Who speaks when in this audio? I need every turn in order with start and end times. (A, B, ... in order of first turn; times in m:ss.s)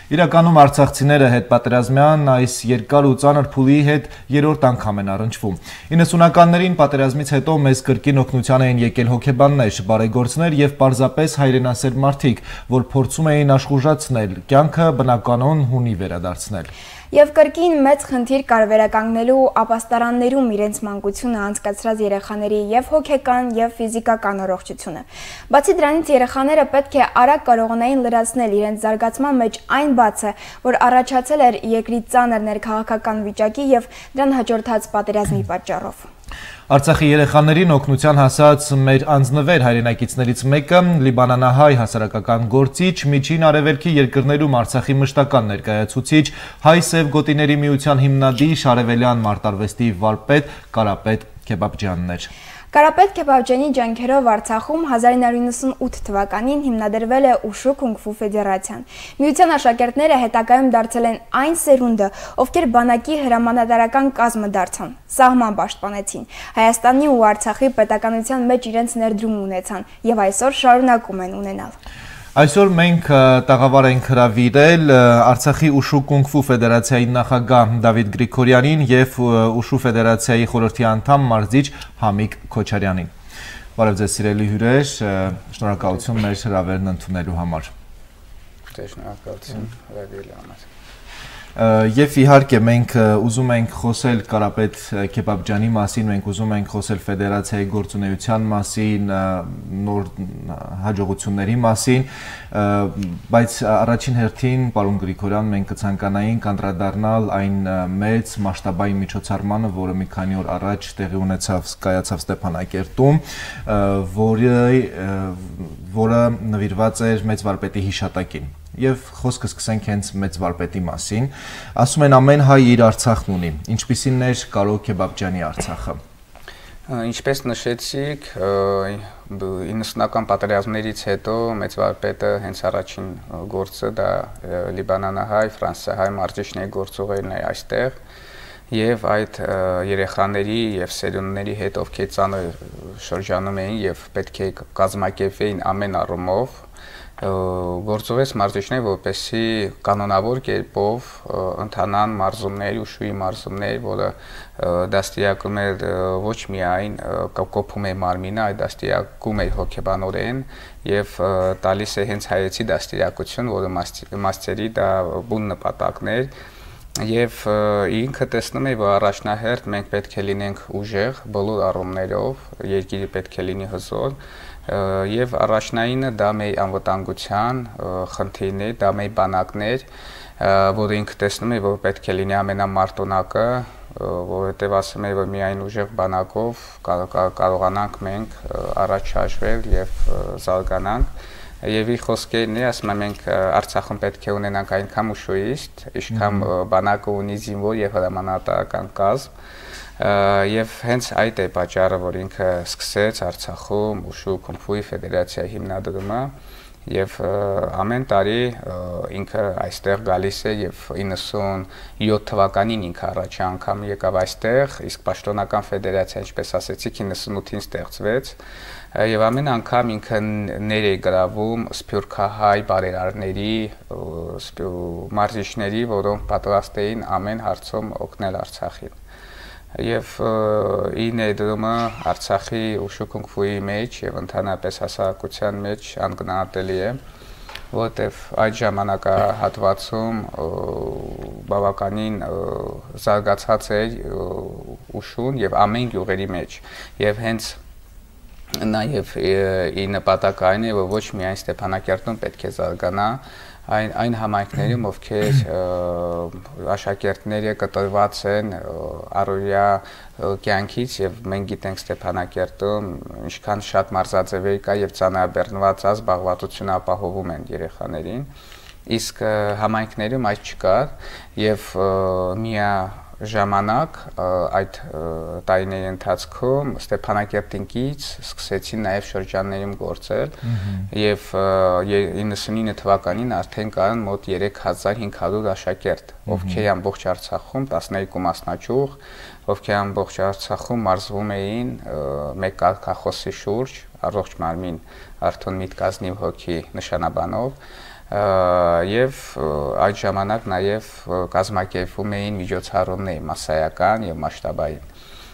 0:00.1-0:16.7 A
0:17.1-0:36.0 B
0:36.7-0:52.3 A
0:52.7-1:11.8 B
1:12.3-1:23.1 A
1:23.8-1:27.7 A
1:28.7-1:30.7 C
1:31.6-2:06.0 A
2:06.9-2:17.9 C
2:18.7-2:26.6 C
2:27.2-2:46.3 C
2:47.0-2:59.9 C
3:00.4-3:11.1 C
3:11.6-3:19.3 C
3:16.1-3:16.5 A
3:20.0-3:26.3 C
3:26.9-3:38.4 C
3:38.9-3:48.9 C
3:49.7-3:57.0 C
3:57.7-4:07.6 C
4:08.6-4:28.3 C
4:28.9-4:40.4 C
4:40.4-4:40.9 A
4:40.9-4:57.6 C
4:46.3-4:46.6 A
4:58.1-5:04.8 C